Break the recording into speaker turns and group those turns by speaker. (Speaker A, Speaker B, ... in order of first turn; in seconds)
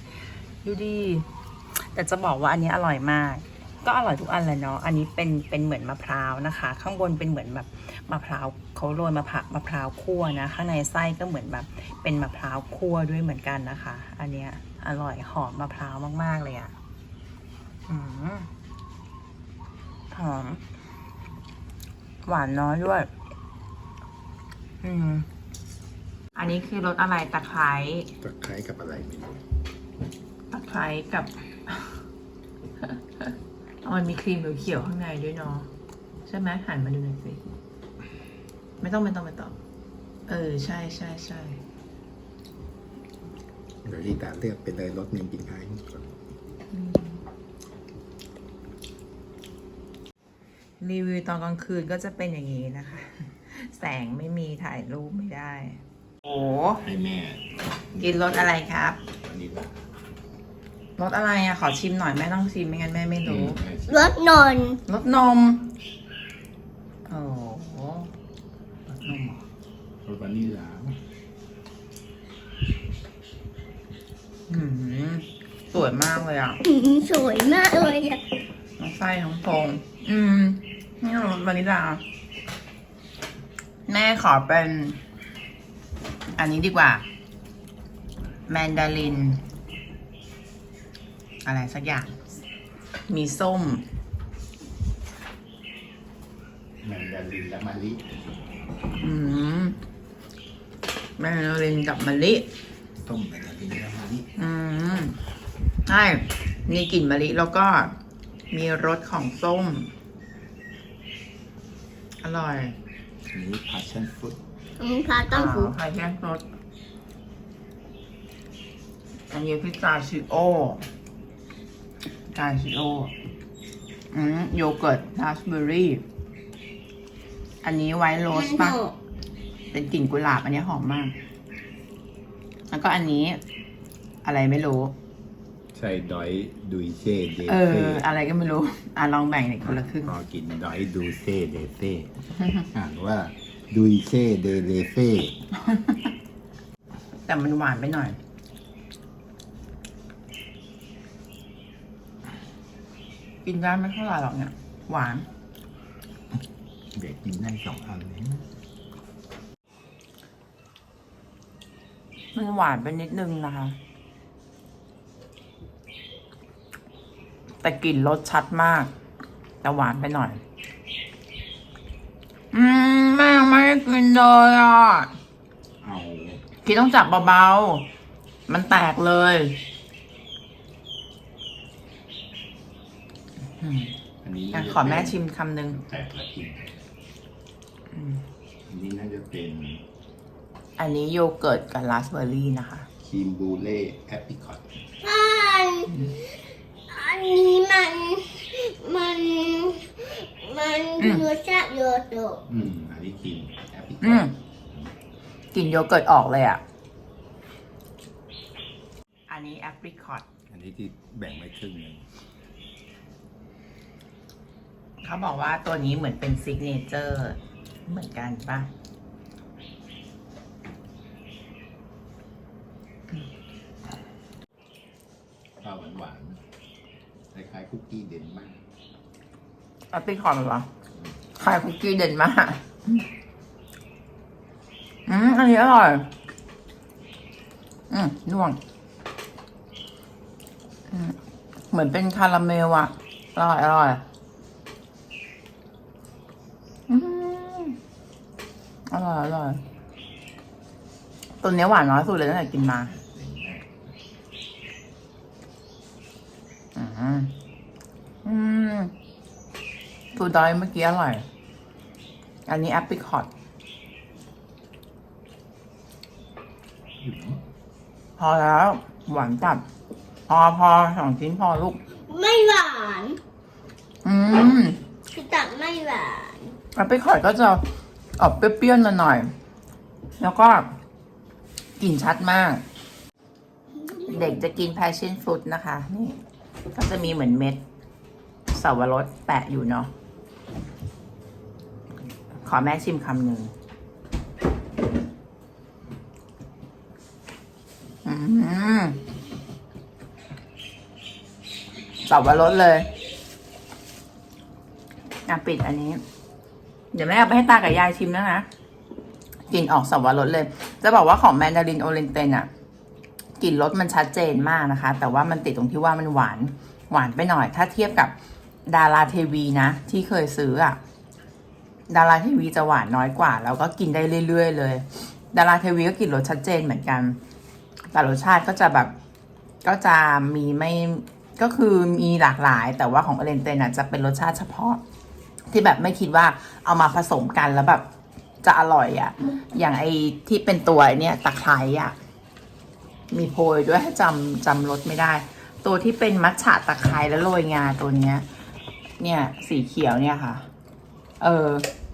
Speaker A: 0.6-16.7, 17.9-18.5, 20.1-20.6, 22.2-23.1, 24.8-25.3, 26.3-28.1, 30.5-32.0, 32.8-35.7, 36.2-37.5, 38.8-39.6, 40.3-41.6, 46.7-47.2, 50.8-56.8, 57.9-59.0, 61.0-63.6, 64.8-65.7, 67.1-68.1, 68.9-69.4, 74.5-76.6, 78.8-82.0, 83.9-85.0, 86.3-87.0, 88.5-89.4, 91.4-92.2, 93.1-93.8, 98.9-99.8, 101.2-102.5, 104.3-105.2, 105.8-108.0, 108.5-109.9, 112.2-112.8, 115.3-116.4, 119.3-120.9, 122.3-123.1, 124.1-126.0, 127.6-128.8, 129.7-131.2, 132.7-133.4, 134.2-134.9, 137.4-140.1, 145.6-146.1, 147.2-148.2, 153.4-155.3, 162.3-163.8, 167.6-168.9, 169.6-170.4, 172.5-175.1, 176.6-177.9, 178.5-179.6, 183.6-183.9, 184.5-185.8, 190.8-192.9, 201.0-201.3, 204.0-204.3, 205.5-206.6, 209.3-210.2, 215.0-218.7, 229.9-230.7, 231.3-233.1, 235.1-236.1, 237.9-238.6, 240.9-241.2, 241.7-244.0, 246.9-247.8, 248.9-249.6, 251.4-252.9, 256.7-257.3, 258.2-258.9, 260.1-261.2, 262.5-263.3, 268.2-269.6, 270.3-271.8, 274.0-274.8, 276.7-277.6, 278.2-279.3, 280.2-280.7, 281.8-282.6, 284.0-286.2, 286.7-287.6, 288.5-289.9, 292.4-293.5, 298.0-299.0, 302.0-302.9, 305.2-306.0, 306.9-308.5, 309.5-312.5, 313.4-318.1, 318.7-320.8, 321.9-327.2, 327.9-328.9, 329.6-334.8, 335.5-337.9, 338.4-341.9, 343.1-348.2, 349.0-350.5, 351.2-351.7
Speaker B: 28.2-29.4, 43.8-46.1, 56.8-57.4, 59.2-59.8, 63.2-64.0, 70.0-71.0, 96.8-98.1, 103.0-104.3, 113.3-114.4, 135.7-138.0, 140.0-145.3, 156.9-158.4, 175.8-176.4, 184.2-185.2, 185.7-186.8, 188.7-189.8, 193.0-194.7, 202.5-204.9, 210.5-212.0, 225.6-226.4, 227.3-228.6, 252.9-253.8, 267.0-267.4
Speaker C: 63.9-64.8, 76.6-78.2, 114.8-115.7, 128.3-128.9, 195.0-196.4, 196.9-202.4, 272.1-273.2, 275.1-276.6